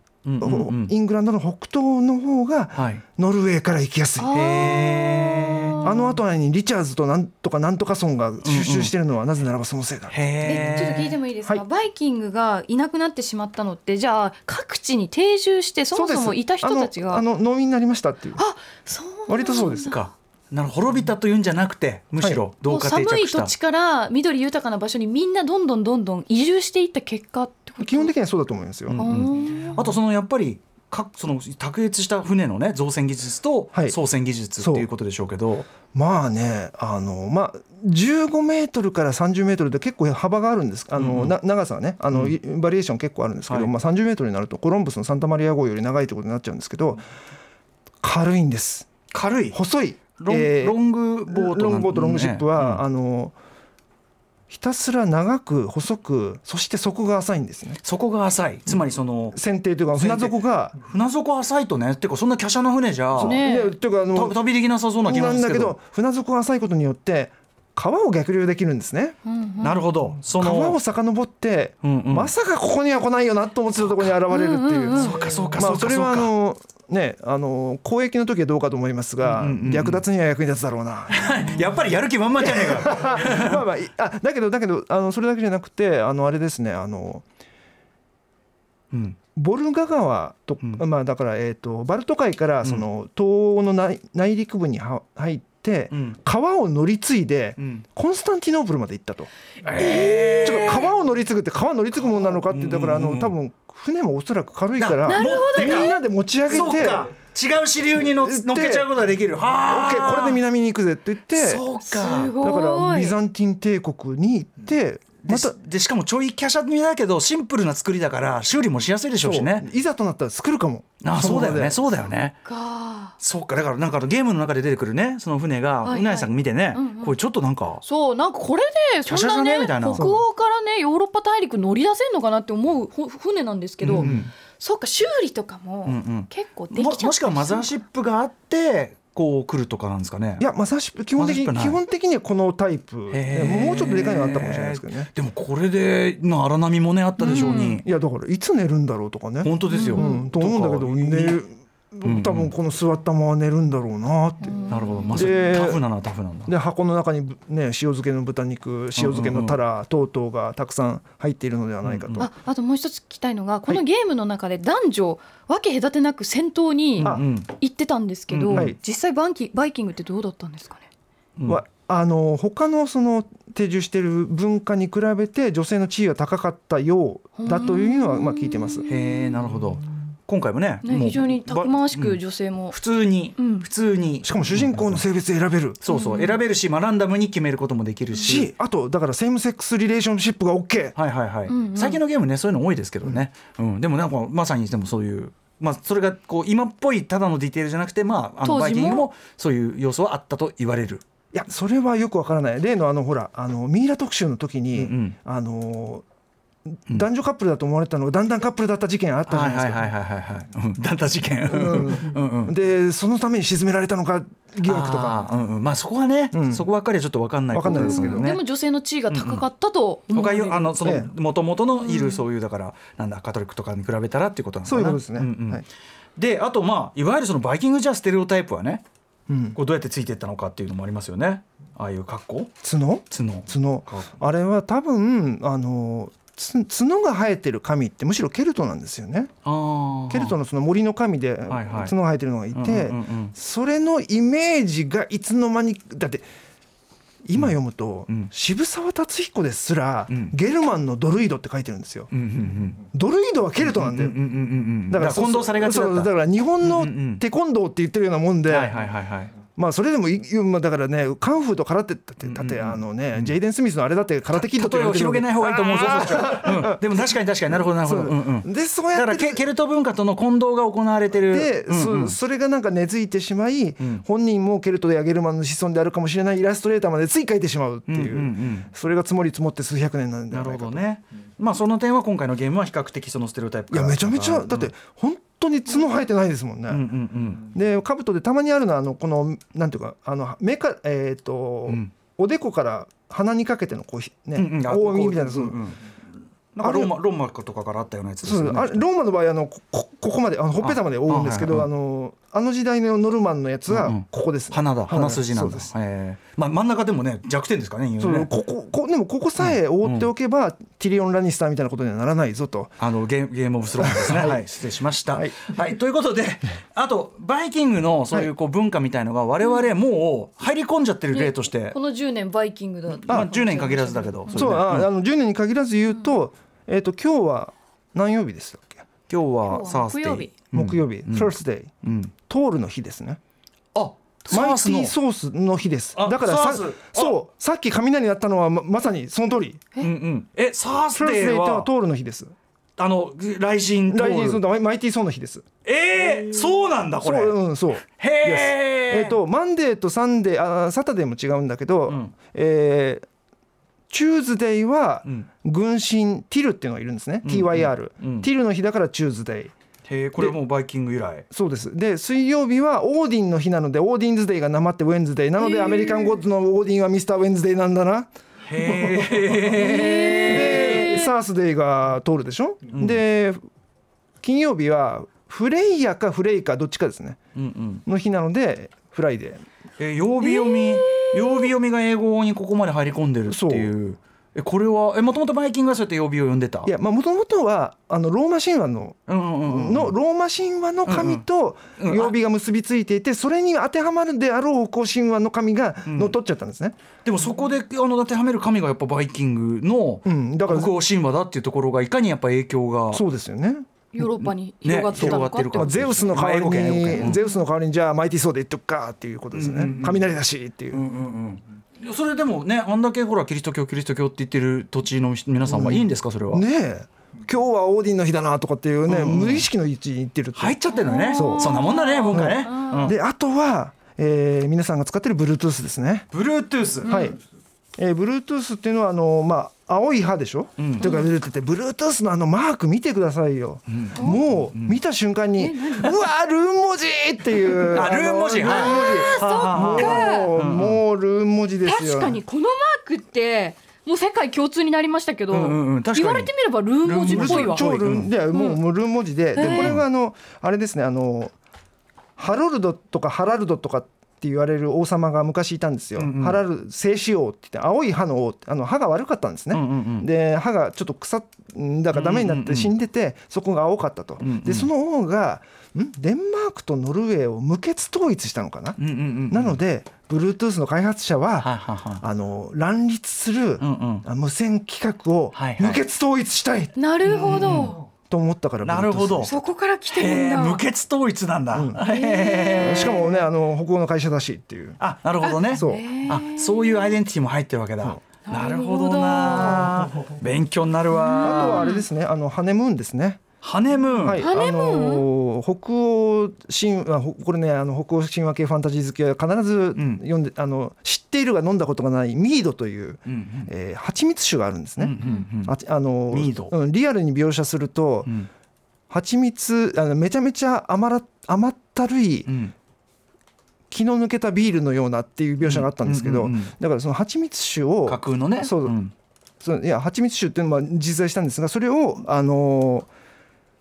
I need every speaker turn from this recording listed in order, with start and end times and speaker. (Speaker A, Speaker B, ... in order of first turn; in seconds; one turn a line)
Speaker A: 0.2-0.9
Speaker B: 0.4-4.7
Speaker A: 2.8-3.0
Speaker C: 4.2-6.2
Speaker A: 4.3-5.9
Speaker B: 5.8-10.2
Speaker A: 8.4-8.9
Speaker A: 10.1-11.2
Speaker C: 10.4-17.2
Speaker B: 15.9-18.4
Speaker C: 18.4-20.0
Speaker B: 19.3-19.9
Speaker A: 19.7-23.5
Speaker C: 22.7-28.1
Speaker B: 27.8-29.1
Speaker A: 28.9-35.7
Speaker C: 29.0-29.8
Speaker B: 34.6-34.9
Speaker B: 35.9-47.0
Speaker A: 41.0-41.4
Speaker A: 42.1-42.4
Speaker B: 48.0-48.9
Speaker A: 49.1-49.6
Speaker B: 49.5-53.4
Speaker A: 50.2-52.8
Speaker B: 54.5-57.8
Speaker A: 57.8-59.4
Speaker B: 59.3-60.8
Speaker A: 60.0-63.4
Speaker B: 63.1-64.4
Speaker C: 63.2-63.7
Speaker A: 64.1-65.8
Speaker B: 65.0-69.2
Speaker C: 69.3-69.8
Speaker A: 69.6-70.8
Speaker B: 70.4-81.6
Speaker A: 71.8-72.3
Speaker C: 74.3-75.2
Speaker A: 74.9-76.3
Speaker A: 79.2-80.0
Speaker A: 81.1-83.6
Speaker B: 82.4-87.2
Speaker A: 88.9-89.2
Speaker B: 89.4-99.3
Speaker A: 95.9-96.2
Speaker A: 97.6-97.8
Speaker A: 99.6-100.9
Speaker B: 99.8-107.1
Speaker C: 100.0-100.5
Speaker A: 102.3-103.3
Speaker A: 104.8-110.4
Speaker C: 105.1-106.0
Speaker B: 108.0-108.9
Speaker B: 109.7-111.6
Speaker A: 111.3-112.4
Speaker C: 111.9-113.2
Speaker B: 112.3-115.6
Speaker A: 115.2-119.7
Speaker B: 119.2-121.9
Speaker A: 121.0-122.4
Speaker C: 122.5-123.1
Speaker A: 123.2-127.8
Speaker C: 125.8-127.2
Speaker C: 127.8-137.7
Speaker A: 129.1-130.1
Speaker B: 129.9-130.2
Speaker A: 133.8-134.3
Speaker B: 134.0-134.2
Speaker A: 135.9-140.5
Speaker B: 140.4-145.1
Speaker A: 141.2-141.8
Speaker A: 143.1-147.8
Speaker C: 147.2-147.8
Speaker B: 147.3-154.6
Speaker A: 149.4-151.4
Speaker C: 149.7-150.2
Speaker A: 152.0-152.5
Speaker C: 154.4-155.5
Speaker A: 154.7-156.5
Speaker B: 155.1-155.8
Speaker B: 156.5-162.3
Speaker A: 159.0-159.6
Speaker A: 161.8-162.3
Speaker C: 162.2-170.9
Speaker A: 167.0-167.5
Speaker A: 168.3-168.8
Speaker B: 168.5-168.8
Speaker A: 171.4-171.6
Speaker B: 171.5-178.9
Speaker C: 177.4-179.4
Speaker A: 178.9-182.2
Speaker C: 180.8-182.8
Speaker A: 182.7-185.0
Speaker C: 183.4-183.7
Speaker B: 184.2-185.8
Speaker A: 185.8-188.5
Speaker C: 185.9-186.4
Speaker B: 188.2-191.0
Speaker A: 191.0-201.0
Speaker C: 191.5-192.0
Speaker C: 198.4-199.1
Speaker B: 201.3-206.1
Speaker A: 204.8-205.2
Speaker B: 206.7-209.9
Speaker A: 209.3-212.5
Speaker B: 211.5-215.3
Speaker A: 214.6-218.4
Speaker B: 216.3-216.7
Speaker B: 217.5-218.3
Speaker C: 217.7-221.0
Speaker A: 219.1-219.4
Speaker A: 220.1-225.7
Speaker B: 220.8-221.1
Speaker C: 221.8-222.2
Speaker B: 224.7-225.7
Speaker A: 226.2-228.8
Speaker B: 229.3-229.6
Speaker A: 229.6-232.5
Speaker B: 232.6-239.3
Speaker A: 233.1-234.1
Speaker A: 239.4-240.3
Speaker B: 240.1-246.2
Speaker A: 241.5-241.9
Speaker A: 242.5-243.3
Speaker B: 247.2-252.1
Speaker A: 252.1-252.8
Speaker B: 252.9-254.2
Speaker A: 253.6-257.2
Speaker B: 254.9-258.8
Speaker A: 258.5-259.4
Speaker B: 259.6-266.8
Speaker A: 262.2-263.3
Speaker A: 264.3-272.2
Speaker B: 267.8-269.4
Speaker B: 271.3-280.8
Speaker A: 277.9-278.7
Speaker A: 280.3-284.7
Speaker B: 283.7-286.9
Speaker A: 286.7-287.5
Speaker B: 287.5-295.6
Speaker A: 294.4-295.8
Speaker A: 296.5-298.8
Speaker B: 296.6-296.9
Speaker B: 298.2-305.7
Speaker A: 300.6-301.7
Speaker A: 303.7-308.3
Speaker B: 308.0-312.8
Speaker A: 309.4-310.1
Speaker A: 312.8-321.8
Speaker B: 313.8-314.4
Speaker B: 315.1-315.5
Speaker C: 321.1-324.6
Speaker A: 323.0-324.9
Speaker B: 324.3-328.9
Speaker A: 329.1-331.3
Speaker C: 329.5-330.3
Speaker B: 330.5-331.7
Speaker A: 331.8-332.1
Speaker B: 332.3-333.2
Speaker A: 333.8-334.9
Speaker B: 334.3-339.7
Speaker A: 336.0-337.2
Speaker A: 339.8-341.7
Speaker B: 340.9-342.3
Speaker A: 342.8-344.4
Speaker B: 343.9-345.5
Speaker A: 345.6-349.2
Speaker B: 347.0-353.1
Speaker A: 351.9-352.1
Speaker B: 353.9-359.5
Speaker A: 357.2-358.3
Speaker A: 359.9-361.3
Speaker B: 361.3-373.4
Speaker C: 365.6-366.1
Speaker A: 368.4-371.0
Speaker C: 369.6-371.1
Speaker A: 372.7-373.0
Speaker B: 374.2-377.2
Speaker A: 377.4-377.8
Speaker B: 377.9-379.4
Speaker A: 379.8-386.7
Speaker C: 380.2-381.5
Speaker B: 383.3-383.7
Speaker B: 386.6-396.8
Speaker A: 389.1-389.9
Speaker A: 390.9-391.2
Speaker A: 391.8-392.1
Speaker A: 395.9-396.1
Speaker A: 397.1-403.0
Speaker B: 400.1-400.7
Speaker B: 402.9-403.7
Speaker C: 403.9-406.2
Speaker A: 404.0-407.2
Speaker B: 405.0-410.8
Speaker A: 409.3-410.1
Speaker A: 410.7-416.4
Speaker B: 415.5-420.6
Speaker A: 418.9-419.5
Speaker A: 420.4-423.0
Speaker C: 420.7-422.9
Speaker B: 421.1-426.1
Speaker A: 426.1-426.9
Speaker C: 426.8-427.2
Speaker B: 426.8-427.2
Speaker B: 427.8-442.2
Speaker A: 430.6-430.9
Speaker C: 430.8-431.1
Speaker A: 433.7-434.8
Speaker C: 434.0-434.2
Speaker C: 435.4-436.0
Speaker A: 437.7-440.8
Speaker C: 438.4-440.3
Speaker C: 441.6-447.7
Speaker A: 445.3-448.1
Speaker B: 447.0-451.3
Speaker C: 448.3-448.6
Speaker C: 449.4-449.8
Speaker A: 449.4-449.8
Speaker B: 452.2-468.8
Speaker A: 456.0-456.4
Speaker A: 459.5-460.1
Speaker A: 461.9-462.7
Speaker A: 464.2-464.7
Speaker A: 468.8-469.6
Speaker B: 469.3-476.8
Speaker A: 471.4-472.0
Speaker A: 473.6-474.1
Speaker A: 475.3-475.8
Speaker C: 476.8-477.8
Speaker A: 477.1-477.8
Speaker B: 478.1-479.3
Speaker A: 478.6-479.3
Speaker C: 479.2-480.6
Speaker A: 479.9-483.1
Speaker B: 481.5-481.8
Speaker C: 481.8-483.2
Speaker B: 482.6-484.8
Speaker A: 484.8-491.8
Speaker C: 485.2-487.0
Speaker B: 485.5-485.9
Speaker C: 488.3-489.8
Speaker C: 490.9-491.9
Speaker B: 491.2-493.2
Speaker A: 493.4-494.3
Speaker B: 494.0-508.1
Speaker C: 494.2-495.1
Speaker A: 499.8-500.0
Speaker A: 503.1-503.5
Speaker A: 504.8-505.6
Speaker A: 506.1-506.5
Speaker B: 508.9-512.3
Speaker A: 512.3-512.5
Speaker B: 513.7-518.8
Speaker A: 515.4-516.5
Speaker A: 517.9-518.9
Speaker B: 519.4-522.9